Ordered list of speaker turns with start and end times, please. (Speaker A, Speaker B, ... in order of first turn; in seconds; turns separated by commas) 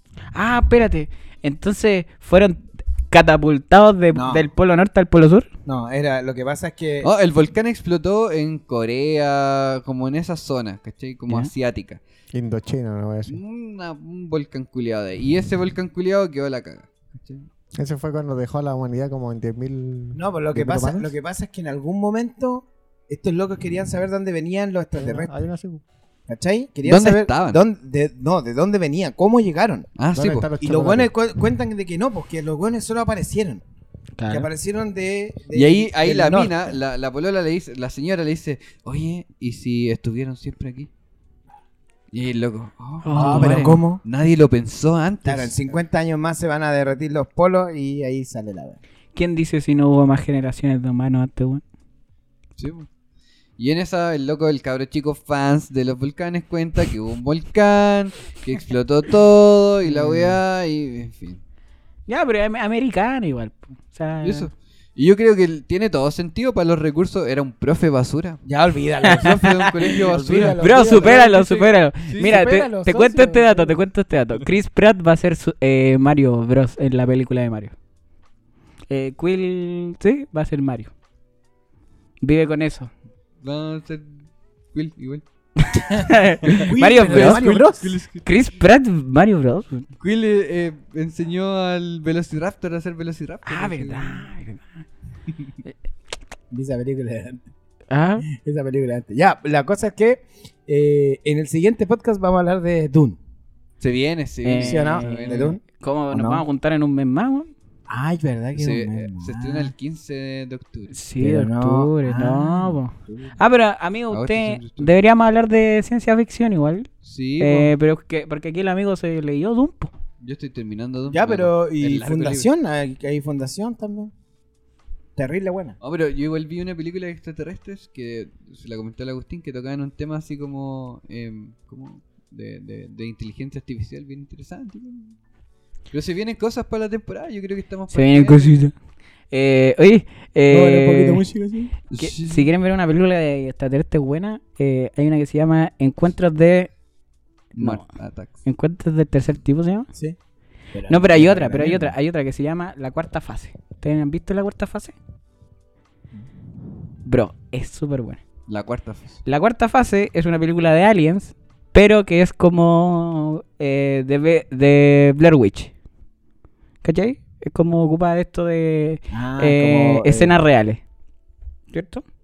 Speaker A: 0.3-5.5, Speaker B: 4.1-4.5, Speaker B: 5.7-7.1, Speaker C: 7.0-12.0, Speaker D: 12.3-13.4, Speaker C: 13.3-17.5, Speaker D: 17.8-21.1, Speaker B: 20.1-25.3, Speaker D: 24.9-25.8, Speaker B: 26.3-29.9, Speaker C: 26.8-27.6, Speaker C: 30.0-30.5, Speaker D: 30.1-31.1, Speaker B: 30.6-33.6, Speaker A: 34.2-34.5, Speaker B: 34.3-36.7, Speaker C: 35.5-40.9, Speaker C: 42.1-45.8, Speaker A: 43.0-43.8, Speaker B: 43.1-44.0, Speaker B: 45.2-48.8, Speaker A: 49.1-51.6, Speaker C: 52.6-52.9, Speaker C: 53.6-61.4, Speaker A: 60.0-60.3, Speaker A: 62.1-64.5, Speaker C: 64.2-68.4, Speaker B: 68.4-71.5, Speaker C: 69.0-72.4, Speaker A: 69.1-69.5, Speaker A: 70.6-77.7, Speaker B: 72.2-73.8, Speaker A: 78.9-80.9, Speaker A: 82.2-82.9, Speaker C: 83.4-85.2, Speaker A: 85.6-87.7, Speaker C: 86.5-88.2, Speaker B: 86.5-87.9, Speaker A: 88.2-89.8, Speaker C: 90.0-94.2, Speaker A: 93.5-94.6, Speaker B: 96.5-97.4, Speaker A: 97.9-98.2, Speaker B: 98.3-103.2, Speaker C: 103.8-105.5, Speaker A: 104.4-107.5, Speaker B: 104.5-106.4, Speaker B: 107.9-109.7, Speaker C: 108.5-111.0, Speaker A: 110.9-116.9, Speaker B: 111.2-113.4, Speaker C: 114.1-114.9, Speaker C: 117.0-117.7, Speaker A: 117.4-119.9, Speaker C: 120.2-122.5, Speaker B: 121.1-124.1, Speaker B: 125.2-125.8, Speaker C: 125.8-135.2, Speaker C: 135.9-138.6, Speaker A: 137.9-138.7, Speaker A: 139.3-141.2, Speaker B: 140.5-141.7, Speaker C: 141.9-142.5, Speaker A: 142.0-146.7, Speaker C: 147.5-148.4, Speaker A: 147.6-149.9, Speaker B: 150.7-151.9, Speaker A: 150.9-154.9, Speaker A: 157.1-158.2, Speaker C: 158.5-159.2, Speaker A: 159.2-165.7, Speaker A: 166.8-170.8, Speaker B: 169.1-170.4, Speaker A: 171.7-172.0